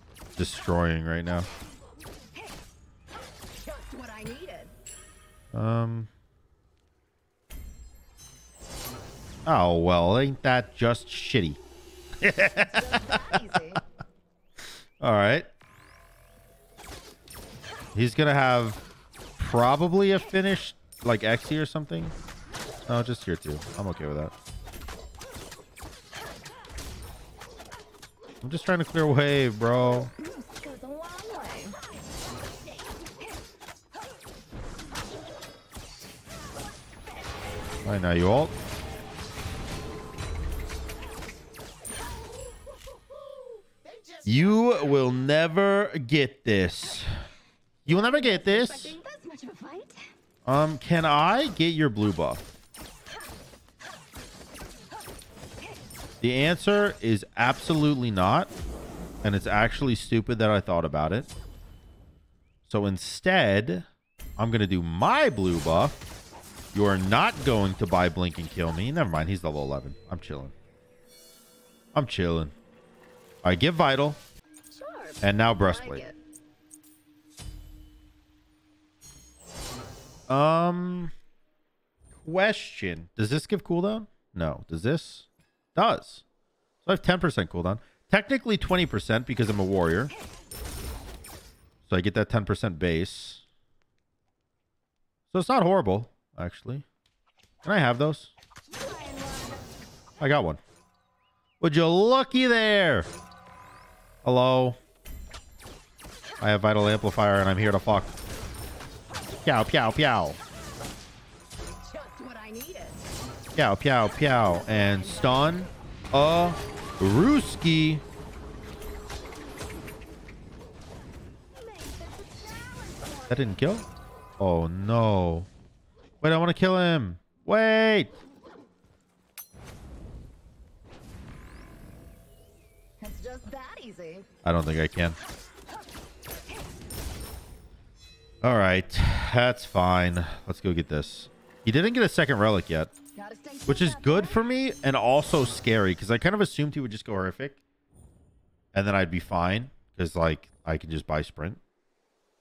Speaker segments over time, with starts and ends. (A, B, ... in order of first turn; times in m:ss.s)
0:00.4-0:01.5 A
0:03.6-0:04.7 B
0:05.5-0:06.1 A
0:09.5-0:11.6 A
0:12.2-0:13.4 A
0:12.6-0:13.8 B
0:15.0-0:15.5 A
0:18.0-0:18.8 A
0:19.4-0:22.1 A
0:22.9-0:24.3 A
0:28.4-0:30.1 A
0:29.9-0:31.8 B
0:37.8-0:38.5 A
0:44.2-0:47.1 A
0:47.8-0:49.0 A
0:47.9-0:50.0 B
0:50.5-0:52.4 A
0:56.2-0:58.5 A
0:59.2-1:01.3 A
1:02.6-1:03.8 A
1:04.4-1:06.0 A
1:06.7-1:10.5 A
1:11.9-1:12.5 A
1:13.4-1:14.2 A
1:14.7-1:16.2 B
1:15.2-1:16.0 A
1:20.3-1:21.1 A
1:22.2-1:26.2 A
1:26.8-1:30.1 A
1:31.9-1:33.4 A
1:35.3-1:36.8 A
1:37.6-1:38.3 A
1:38.7-1:39.7 B
1:40.2-1:40.6 A
1:41.6-1:43.1 A
1:44.2-1:44.8 A
1:46.4-1:48.2 A
1:49.4-1:50.4 A
1:51.8-1:53.0 B
1:53.6-1:58.0 A
1:54.4-1:55.7 B
2:01.5-2:03.7 B
2:03.3-2:03.9 A
2:04.4-2:05.5 A
2:06.2-2:08.1 A
2:13.0-2:14.3 B
2:14.4-2:15.2 A
2:18.4-2:22.9 A
2:23.2-2:24.4 B
2:23.7-2:27.6 A
2:28.7-2:31.6 A